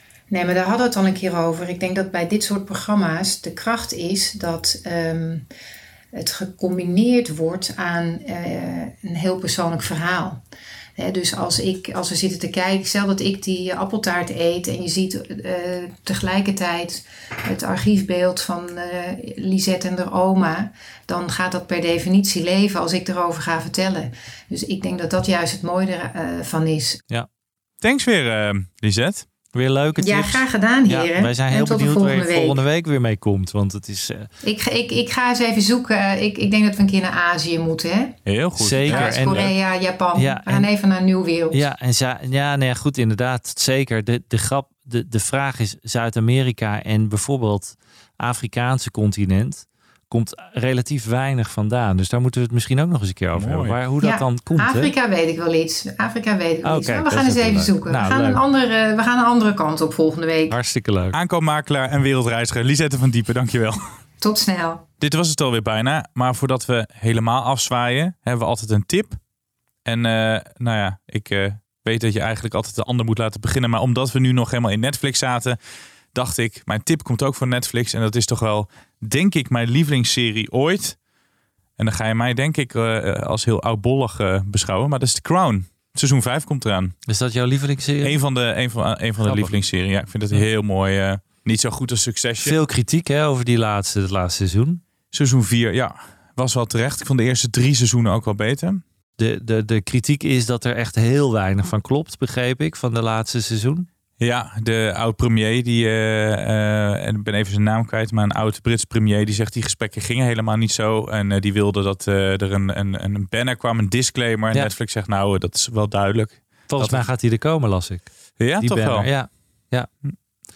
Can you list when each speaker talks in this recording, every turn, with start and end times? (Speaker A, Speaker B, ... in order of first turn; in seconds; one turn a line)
Speaker A: 0.3-5.5
Speaker A: 6.1-10.4
Speaker A: 11.0-27.0
Speaker B: 27.8-29.3
Speaker C: 29.5-34.3
Speaker A: 30.0-32.6
Speaker A: 34.4-38.2
Speaker B: 38.3-39.5
Speaker C: 38.6-39.4
Speaker A: 38.8-41.6
Speaker C: 40.1-40.7
Speaker C: 41.5-54.9
Speaker B: 53.4-53.8
Speaker A: 54.0-60.5
Speaker C: 56.6-58.4
Speaker C: 60.5-61.2
Speaker B: 61.1-63.8
Speaker A: 64.2-64.8
Speaker B: 65.0-69.2
Speaker B: 69.8-75.6
Speaker B: 76.1-81.0
Speaker B: 81.8-87.0
Speaker C: 87.1-88.2
Speaker B: 88.0-92.6
Speaker C: 89.2-89.5
Speaker C: 92.4-94.8
Speaker B: 95.1-98.8
Speaker C: 99.2-103.9
Speaker B: 104.2-117.1
Speaker C: 116.7-119.9
Speaker B: 118.4-119.1